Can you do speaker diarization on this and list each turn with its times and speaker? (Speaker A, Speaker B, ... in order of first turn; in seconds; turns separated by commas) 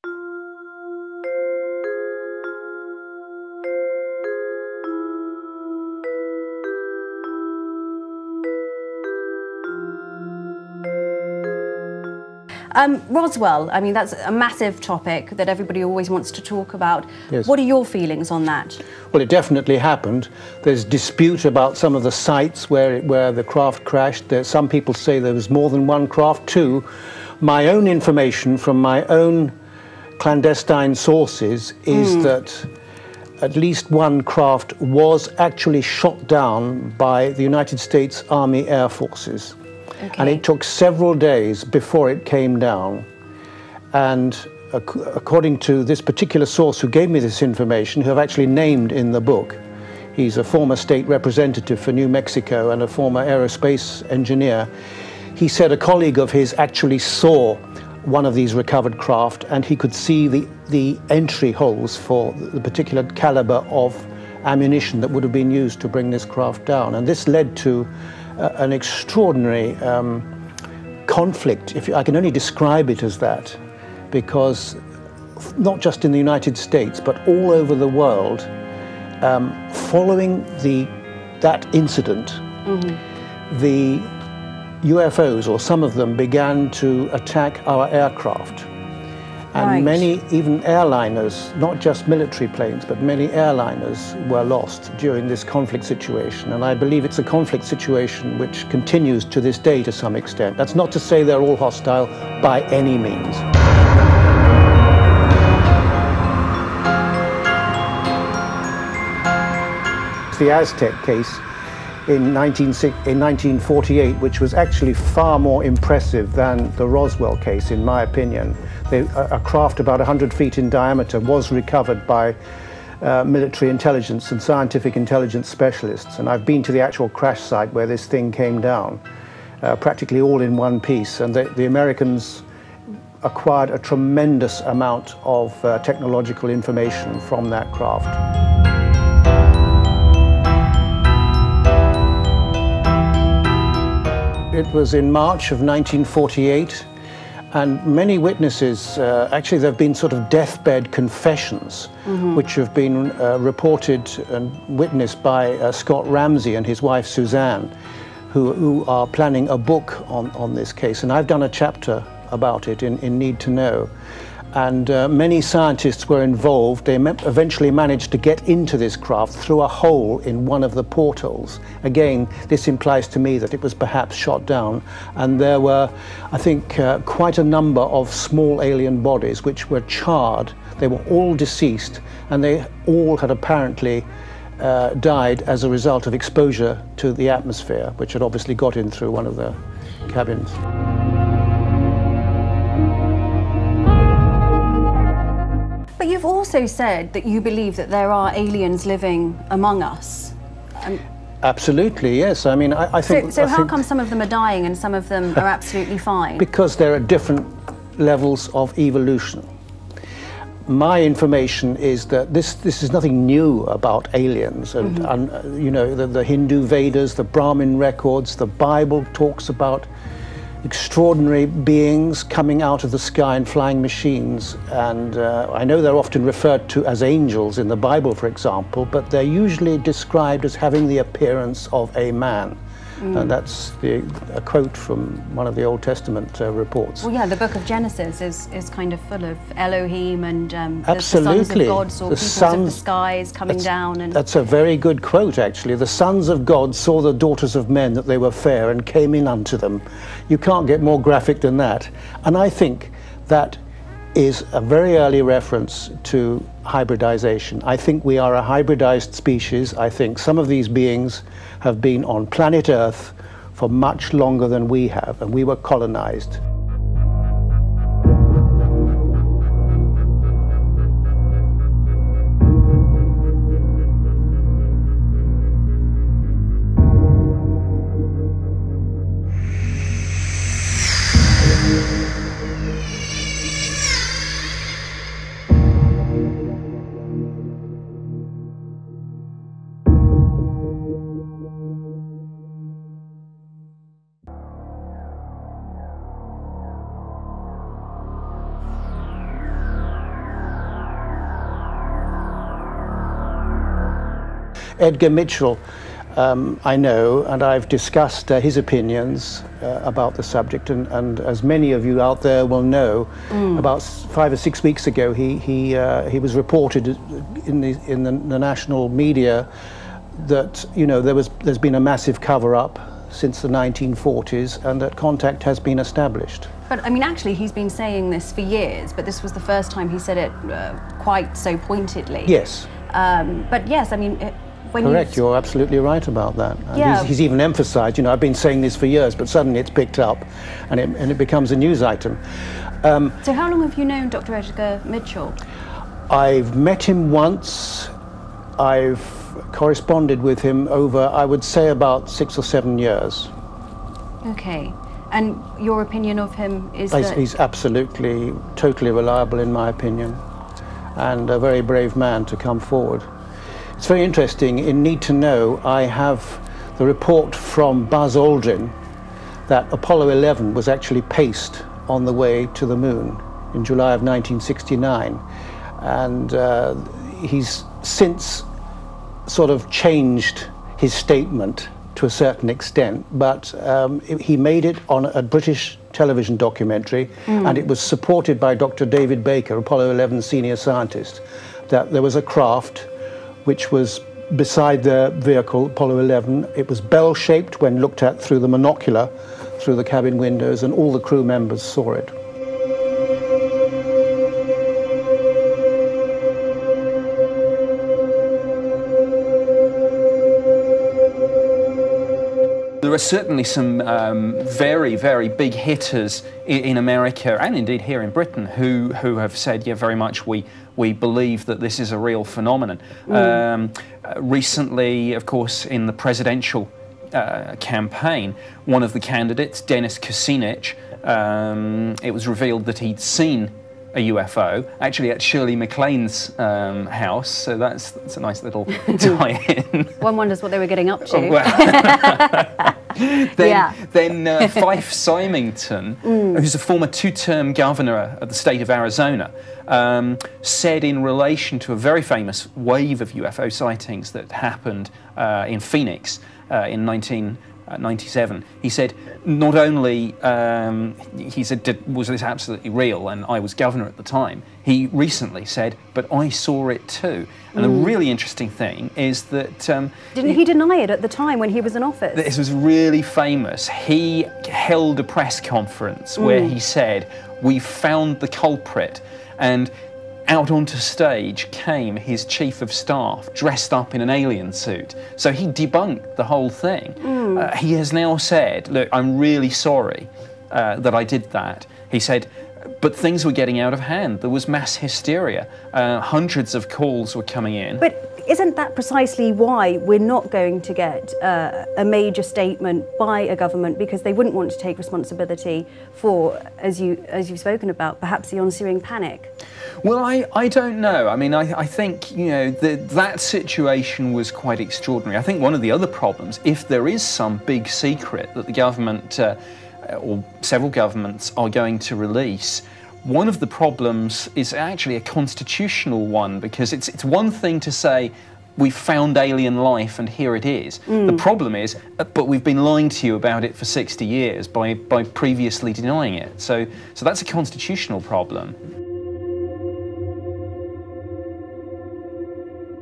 Speaker A: 12.7-18.8, Speaker B: 19.1-26.9, Speaker B: 27.4-29.5, Speaker B: 30.2-32.7, Speaker A: 31.9-32.3, Speaker B: 33.4-39.5, Speaker A: 40.0-40.4, Speaker B: 40.1-43.0, Speaker B: 43.9-49.6, Speaker B: 50.1-54.7, Speaker B: 55.3-70.3, Speaker B: 71.0-73.6, Speaker B: 74.1-74.8, Speaker B: 75.4-78.5, Speaker B: 79.2-82.4, Speaker A: 82.7-83.0, Speaker B: 83.5-84.1, Speaker B: 84.8-88.7, Speaker B: 89.5-103.5, Speaker A: 89.6-90.0, Speaker B: 110.3-111.4, Speaker B: 112.0-122.3, Speaker B: 123.0-129.0, Speaker B: 129.6-132.4, Speaker B: 133.2-138.2, Speaker B: 144.5-146.9, Speaker B: 147.5-157.7, Speaker A: 152.1-152.4, Speaker B: 158.3-163.9, Speaker B: 164.5-184.1, Speaker B: 184.6-190.6, Speaker A: 196.0-201.0, Speaker B: 201.4-203.8, Speaker A: 203.1-206.4, Speaker B: 206.4-209.5, Speaker B: 210.7-219.9, Speaker A: 214.8-215.1, Speaker B: 220.6-232.6, Speaker A: 233.0-233.3, Speaker B: 233.1-237.1, Speaker A: 237.0-244.2, Speaker B: 240.8-242.8, Speaker B: 244.1-253.6, Speaker B: 254.1-266.4, Speaker B: 304.8-305.6, Speaker B: 306.1-319.5, Speaker A: 313.3-313.6, Speaker B: 320.1-326.5, Speaker A: 326.7-332.3, Speaker B: 332.2-332.7, Speaker A: 332.9-335.2, Speaker B: 334.8-342.2, Speaker A: 336.7-337.1, Speaker B: 342.8-343.2, Speaker A: 343.2-345.4, Speaker B: 346.1-347.9, Speaker B: 348.6-353.3, Speaker A: 354.2-357.2, Speaker B: 356.9-360.2, Speaker B: 360.9-363.1, Speaker B: 363.8-368.7, Speaker B: 369.5-375.2, Speaker B: 375.8-378.4, Speaker B: 379.2-392.9, Speaker A: 387.3-387.6, Speaker B: 393.4-402.1, Speaker C: 412.8-440.0, Speaker A: 423.1-423.4, Speaker A: 440.0-442.7, Speaker C: 441.1-470.4, Speaker A: 443.4-443.8, Speaker A: 446.0-446.4, Speaker A: 467.6-467.9, Speaker A: 470.1-472.3, Speaker C: 472.1-479.7, Speaker A: 476.2-476.6, Speaker C: 480.3-492.3, Speaker A: 487.0-487.5, Speaker C: 492.8-497.8, Speaker A: 497.8-509.3, Speaker C: 509.8-538.5, Speaker A: 530.9-531.2